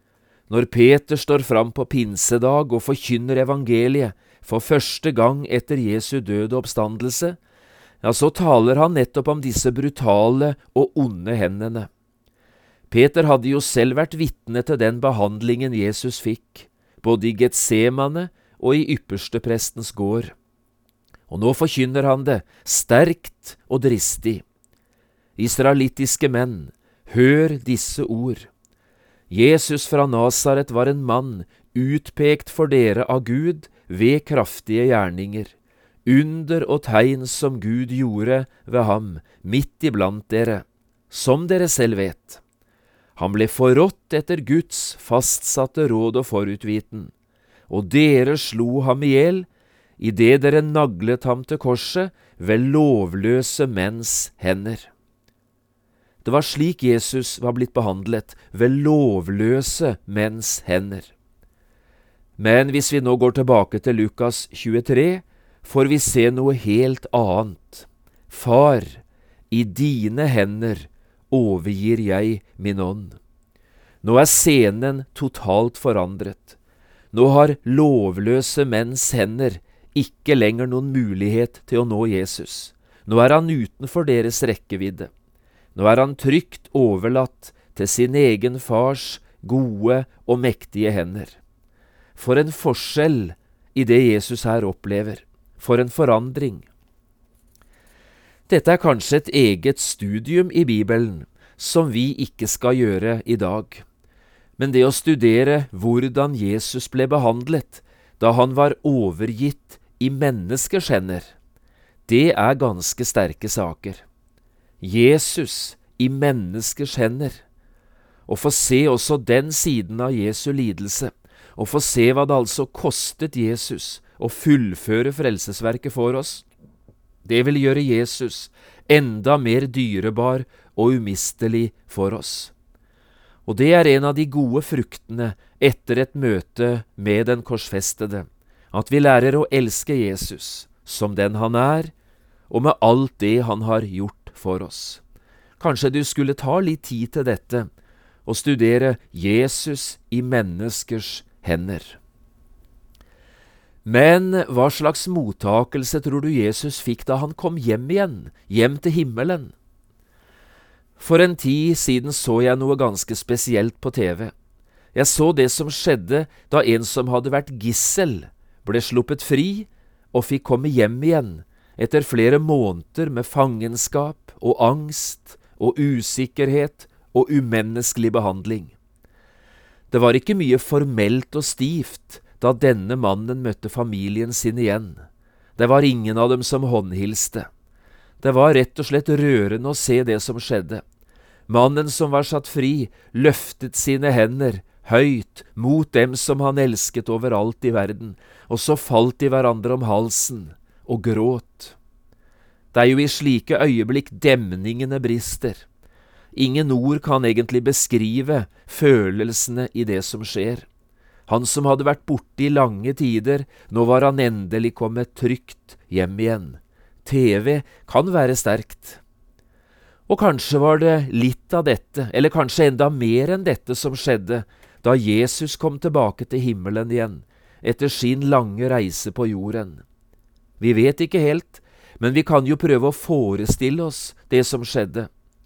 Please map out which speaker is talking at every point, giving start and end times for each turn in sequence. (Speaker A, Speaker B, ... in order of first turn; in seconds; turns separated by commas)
Speaker A: 0.5-7.4, Speaker A: 8.0-11.9, Speaker A: 12.9-20.3, Speaker A: 21.3-24.4, Speaker A: 25.4-28.5, Speaker A: 29.3-35.5, Speaker A: 36.0-42.4, Speaker A: 43.2-47.1, Speaker A: 47.7-49.5, Speaker A: 50.0-54.9, Speaker A: 56.2-61.1, Speaker A: 62.4-73.2, Speaker A: 74.0-76.6, Speaker A: 77.1-85.1, Speaker A: 85.7-91.4, Speaker A: 92.2-96.7, Speaker A: 98.5-103.8, Speaker A: 104.6-111.3, Speaker A: 112.1-114.0, Speaker A: 114.8-117.4, Speaker A: 118.3-126.4, Speaker A: 127.2-132.5, Speaker A: 133.4-141.9, Speaker A: 142.5-145.0, Speaker A: 145.6-147.7, Speaker A: 148.2-152.0, Speaker A: 153.8-159.5, Speaker A: 161.0-164.3, Speaker A: 164.9-178.7, Speaker A: 179.9-185.0, Speaker A: 185.6-187.5, Speaker A: 188.2-190.8, Speaker A: 191.5-201.7, Speaker A: 202.7-205.6, Speaker A: 206.3-210.7, Speaker A: 211.3-219.0, Speaker A: 220.1-229.8, Speaker A: 230.6-235.1